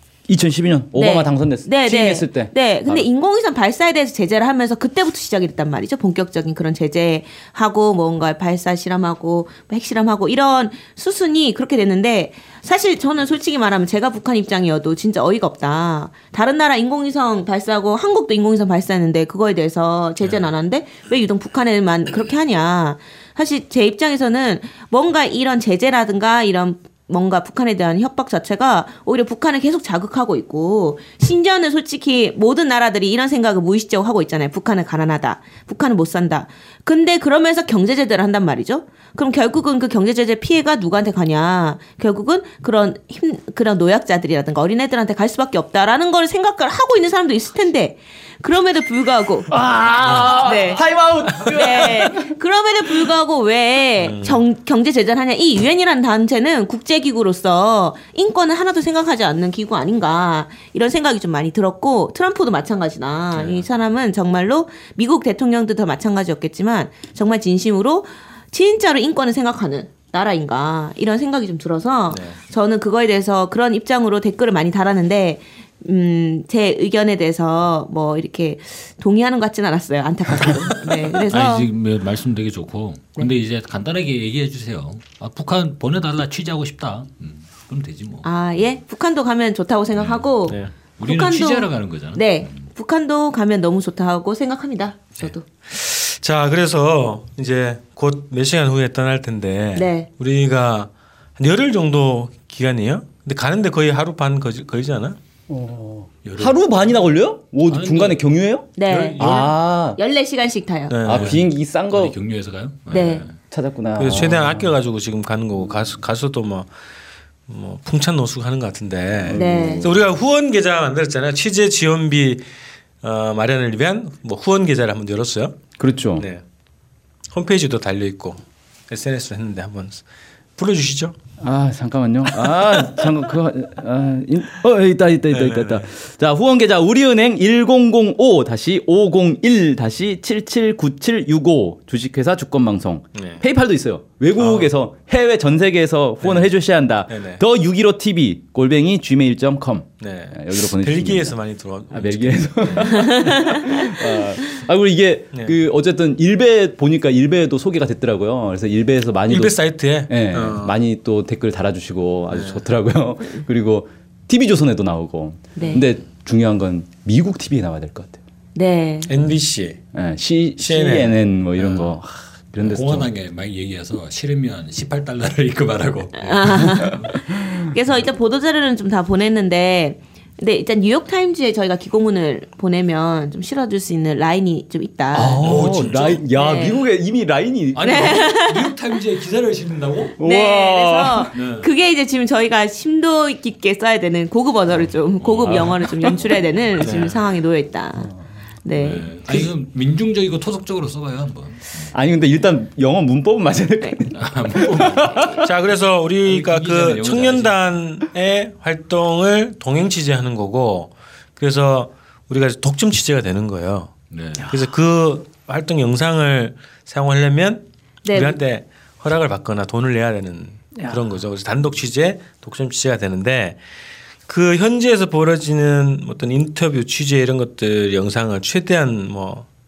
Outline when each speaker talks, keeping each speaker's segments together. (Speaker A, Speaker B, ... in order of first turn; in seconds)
Speaker A: 0.3-3.1, 49.5-52.3, 105.5-110.0, 111.0-112.2, 113.5-114.7, 119.2-120.1, 125.8-126.3, 131.4-151.4, 151.9-168.2, 169.9-173.1, 185.1-188.2, 190.2-191.3, 201.9-205.5
Speaker B: 0.9-49.5, 50.1-50.9, 51.5-81.7, 88.2-95.5, 99.8-100.1, 108.8-111.0, 112.9-113.3, 119.3-119.9, 153.0-153.7, 165.6-165.8, 168.6-169.1, 176.2-185.5, 186.3-186.9, 187.8-188.7, 190.2-198.1, 198.6-199.1, 205.1-205.4, 218.0-218.4
Speaker C: 20.2-20.5, 50.0-50.3, 54.0-54.4, 63.3-63.7, 72.1-72.4, 95.2-105.2, 108.9-109.5, 110.9-111.4, 114.0-116.7, 117.5-122.5, 123.0-125.6, 126.2-126.4, 127.3-130.0, 130.6-131.2, 135.3-135.9, 143.2-143.4, 144.4-144.8, 146.2-146.6, 147.1-147.4, 150.0-153.4, 159.3-160.8, 162.3-162.6, 169.1-169.8, 170.6-172.0, 185.5-186.2, 196.8-197.2, 205.4-223.6, 224.3-229.5
Speaker D: 81.3-88.3, 89.9-92.6, 106.2-106.9, 107.7-108.2, 111.1-113.3, 172.6-177.1, 185.4-186.2, 187.8-190.2, 191.3-191.7, 195.2-196.2, 196.8-197.0, 198.8-201.9, 204.1-205.2, 206.2-207.6, 214.1-214.6